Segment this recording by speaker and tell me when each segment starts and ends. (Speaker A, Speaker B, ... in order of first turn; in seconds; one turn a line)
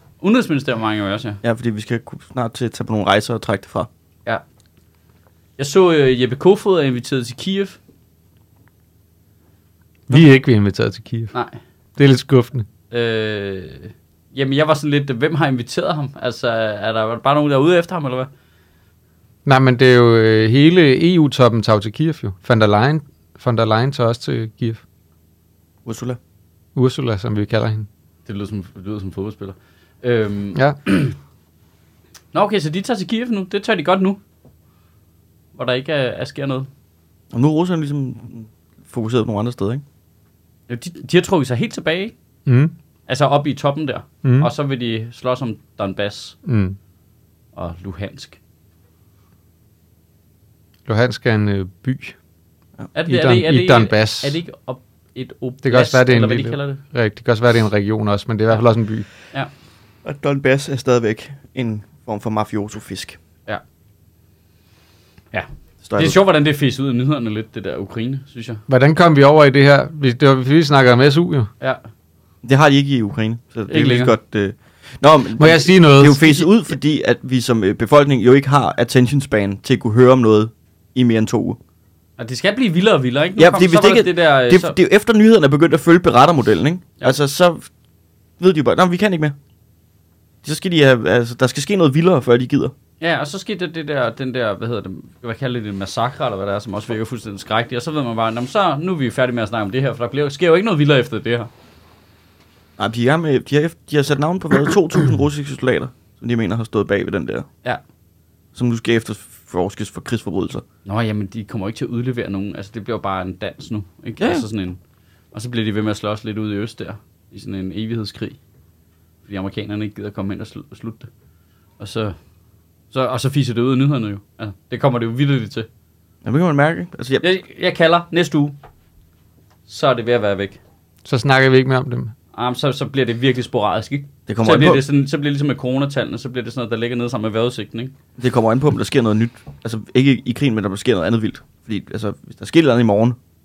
Speaker A: 0.2-1.4
Speaker B: 1.4-3.9
Speaker A: 5.6-7.8
Speaker C: 10.1-11.3
Speaker A: 11.3-11.6
Speaker C: 12.0-12.6
Speaker A: 12.9-18.3
Speaker C: 19.4-24.8
Speaker B: 25.9-26.2
Speaker C: 26.7-27.9
Speaker A: 28.2-31.1
Speaker A: 32.3-34.2
Speaker A: 35.5-36.7
Speaker B: 37.3-39.8
Speaker A: 40.7-42.1
Speaker C: 42.5-42.7
Speaker A: 43.1-46.3
Speaker C: 44.2-44.5
Speaker C: 46.5-46.8
Speaker A: 47.5-48.4
Speaker C: 50.9-52.1
Speaker A: 52.9-56.8
Speaker C: 53.1-54.4
Speaker C: 55.6-59.1
Speaker B: 60.0-63.2
Speaker A: 65.3-68.6
Speaker B: 65.8-66.2
Speaker C: 68.7-71.5
Speaker B: 72.4-81.6
Speaker A: 73.7-74.1
Speaker C: 75.4-76.5
Speaker A: 82.2-84.8
Speaker B: 83.4-87.7
Speaker B: 88.4-89.3
Speaker B: 90.4-92.7
Speaker A: 93.0-101.5
Speaker B: 102.8-107.5
Speaker B: 108.5-110.6
Speaker A: 110.8-114.8
Speaker B: 114.2-114.4
Speaker A: 115.3-118.4
Speaker A: 119.3-121.1
Speaker A: 121.8-122.2
Speaker A: 122.9-125.7
Speaker B: 126.2-127.2
Speaker A: 127.2-128.5
Speaker A: 129.7-130.6
Speaker C: 131.0-132.1
Speaker A: 132.3-137.9
Speaker B: 134.3-134.8
Speaker B: 138.2-143.2